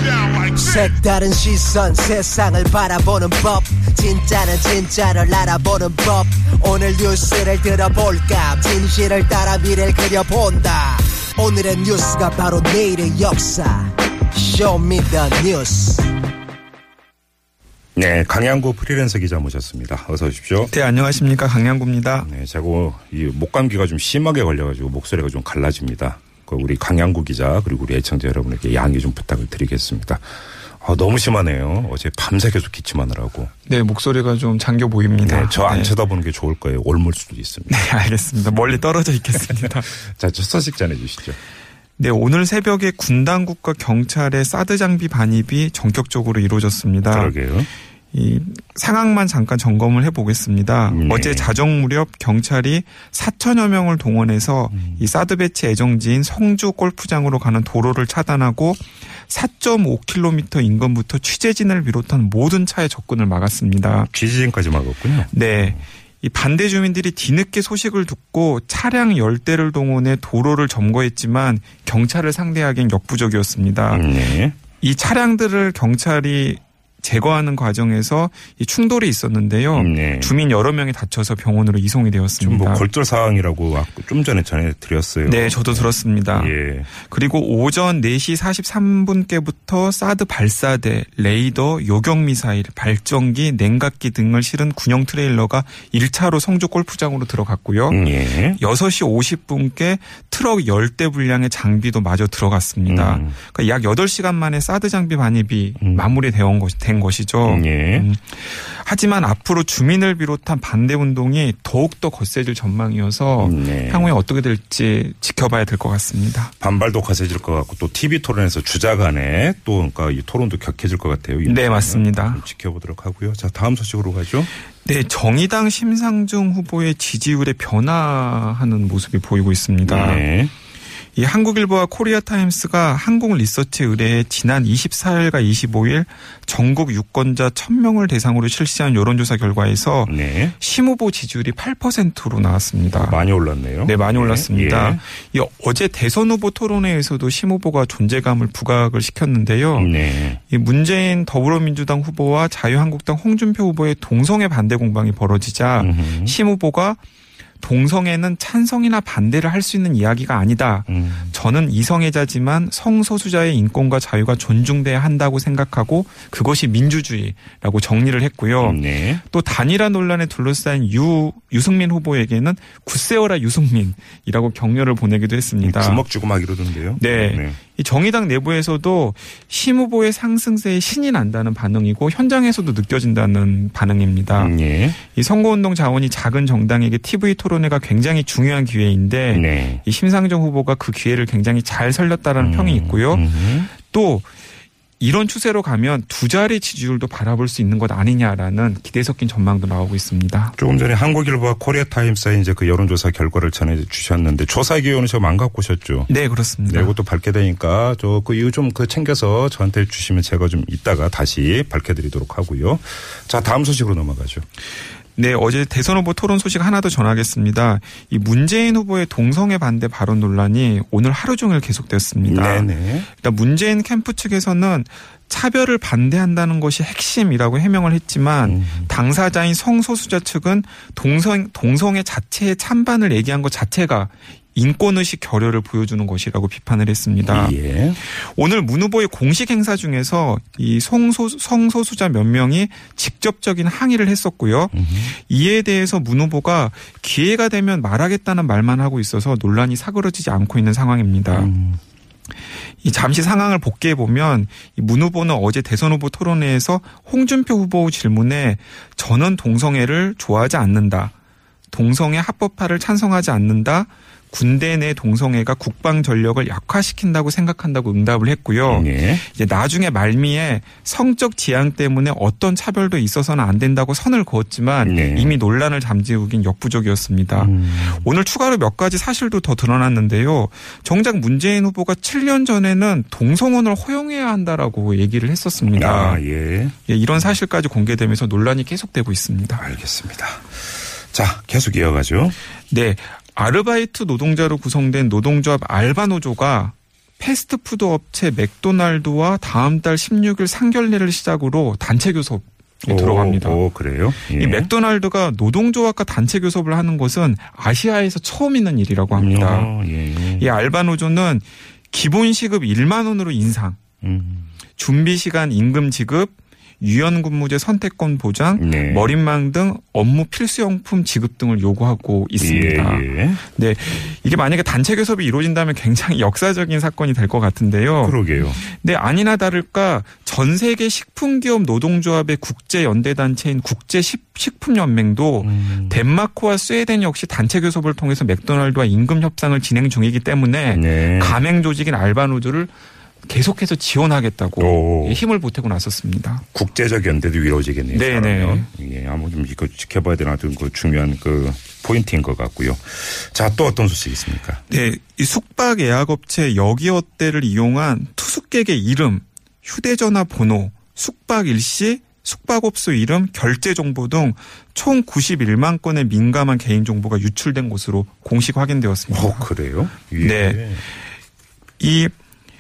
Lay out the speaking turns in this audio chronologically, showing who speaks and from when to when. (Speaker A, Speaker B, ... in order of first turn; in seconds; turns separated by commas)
Speaker A: 0.4-16.1, Speaker B: 18.0-20.7, Speaker C: 20.7-22.3, Speaker B: 22.2-30.2, Speaker B: 30.8-33.5, Speaker C: 33.7-35.9, Speaker B: 35.2-37.9, Speaker C: 37.7-39.9, Speaker B: 39.5-41.4, Speaker C: 42.0-47.4, Speaker B: 47.1-47.7, Speaker C: 48.1-64.1, Speaker B: 50.9-51.5, Speaker B: 54.8-55.0, Speaker B: 64.1-65.8, Speaker C: 65.3-74.1, Speaker B: 73.9-74.6, Speaker C: 74.8-82.8, Speaker B: 79.7-80.3, Speaker B: 82.4-86.9, Speaker C: 85.2-116.5, Speaker B: 97.9-98.6, Speaker B: 102.9-103.4, Speaker B: 105.8-106.1, Speaker B: 107.5-108.1, Speaker B: 113.4-114.1, Speaker B: 116.6-124.5, Speaker C: 121.5-122.4, Speaker C: 124.8-130.2, Speaker B: 129.9-130.5, Speaker C: 131.2-143.2, Speaker B: 140.1-140.6, Speaker B: 142.9-145.0, Speaker C: 143.8-157.0, Speaker B: 149.8-150.4, Speaker B: 155.8-156.4, Speaker C: 157.6-176.0, Speaker B: 160.9-161.3, Speaker B: 168.6-169.2, Speaker B: 175.6-177.6, Speaker C: 177.0-194.3, Speaker B: 184.3-185.0, Speaker B: 189.3-189.8, Speaker B: 192.4-193.7, Speaker C: 195.0-200.6, Speaker B: 200.6-206.1, Speaker C: 206.1-206.9, Speaker B: 206.7-214.4, Speaker C: 215.2-251.5, Speaker B: 222.3-223.1, Speaker B: 228.4-228.9, Speaker B: 237.3-238.0, Speaker B: 244.7-245.1, Speaker B: 251.3-251.8, Speaker C: 252.8-261.1, Speaker C: 261.7-286.2, Speaker B: 268.7-269.2, Speaker B: 274.8-275.4, Speaker B: 277.4-278.1, Speaker B: 285.7-286.8, Speaker C: 286.9-289.6, Speaker B: 289.6-292.4, Speaker C: 292.7-303.6, Speaker B: 302.8-304.7, Speaker C: 304.3-309.7, Speaker B: 309.1-310.5, Speaker C: 310.4-313.8, Speaker B: 314.0-314.5, Speaker C: 314.8-342.7, Speaker B: 318.6-319.1, Speaker B: 322.4-323.4, Speaker B: 328.0-328.6, Speaker B: 335.4-336.0, Speaker B: 340.7-341.4, Speaker C: 343.2-346.4, Speaker B: 344.6-345.2, Speaker B: 346.5-354.6, Speaker C: 347.9-348.7, Speaker C: 354.7-369.5, Speaker B: 369.1-370.8, Speaker C: 370.2-370.6, Speaker C: 371.8-372.1